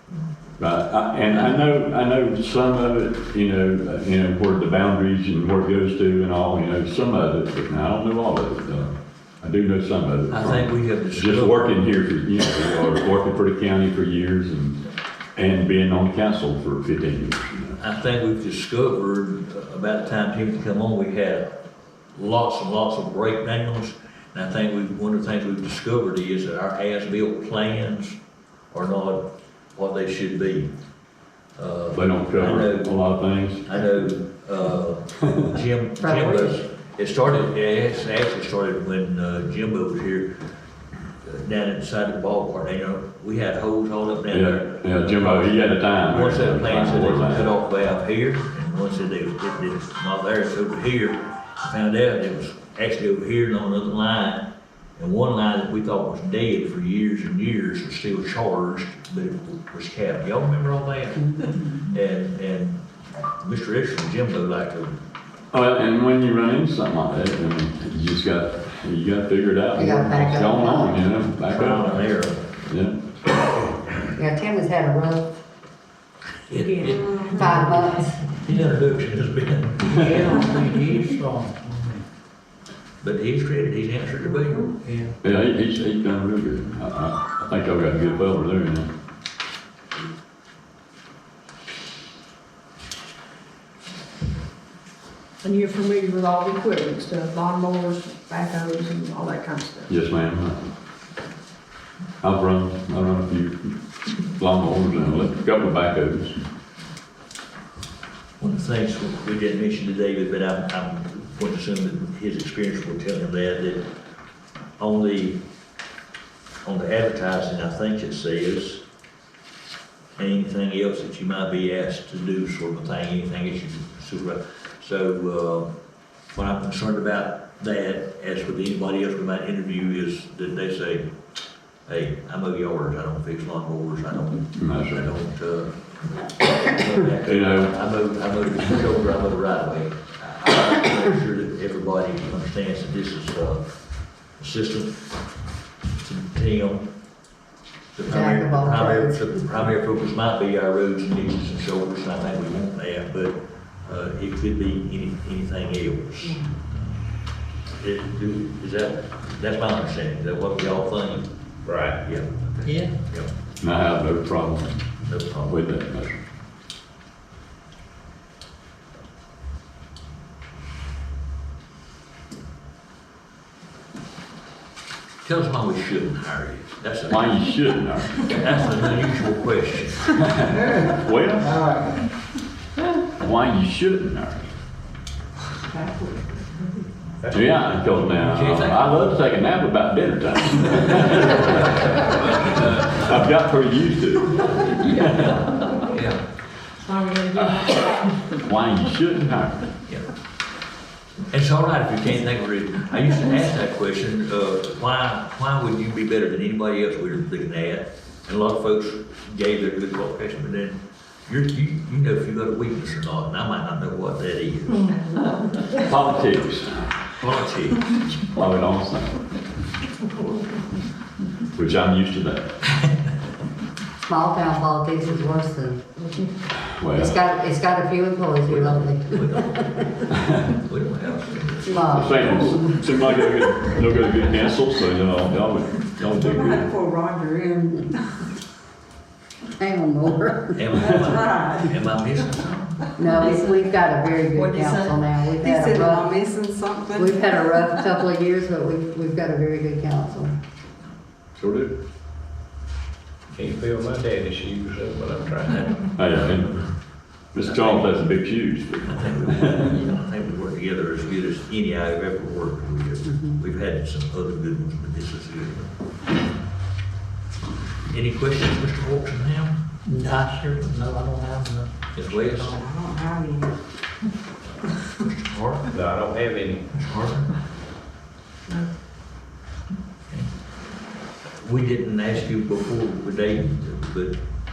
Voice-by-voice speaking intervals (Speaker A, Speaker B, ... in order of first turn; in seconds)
Speaker A: 0.6-14.8, 15.3-17.8, 31.9-33.6, 44.3-47.5, 65.5-71.9, 72.7-73.0, 85.2-88.9, 99.9-100.6, 102.2-103.7, 104.3-106.3, 134.6-135.1, 137.2-137.7, 163.6-164.8, 165.4-166.2, 177.1-178.3, 180.2-181.6, 183.2-184.5, 187.3-195.6, 198.3-199.7, 215.7-216.9, 218.3-219.2, 221.5-222.5, 226.7-227.3, 231.9-236.7, 251.4-251.7, 256.0-256.6, 257.3-259.7
Speaker B: 1.2-1.6, 10.3-11.8, 17.8-21.6, 22.1-28.2, 28.7-30.7, 31.6-32.9, 33.6-40.3, 41.2-65.0, 71.4-72.5, 76.5-80.5, 83.0-85.1, 108.4-113.8, 114.8-115.4, 116.6-118.8, 120.2-125.7, 126.3-131.0, 131.8-143.7, 144.4-145.1, 146.0-146.9, 147.9-156.8, 157.8-161.3, 162.0-163.3, 165.1-165.5, 175.2-177.3, 178.2-180.2, 188.1-189.0, 192.3-193.1, 195.1-196.2, 201.3-214.9, 217.2-217.9, 228.4-232.3, 240.6-242.9, 255.4-256.3, 257.4-257.9, 258.8-265.7, 267.9-269.6, 271.9-272.6, 274.9-275.7, 276.7-277.3, 281.4-284.2
Speaker C: 36.0-36.5, 69.8-70.9, 74.1-75.3, 77.1-78.2, 148.0-149.4, 224.1-225.8, 226.9-229.6, 231.7-232.7, 239.6-240.6, 243.0-246.1, 246.9-250.3
Speaker D: 76.6-77.5, 95.4-99.9, 196.8-198.2
Speaker E: 79.8-82.0, 269.9-272.6
Speaker F: 161.6-162.0, 187.2-187.7, 253.3-255.7, 275.7-276.6
Speaker G: 236.2-238.0, 241.1-241.6, 243.1-247.9, 272.6-273.5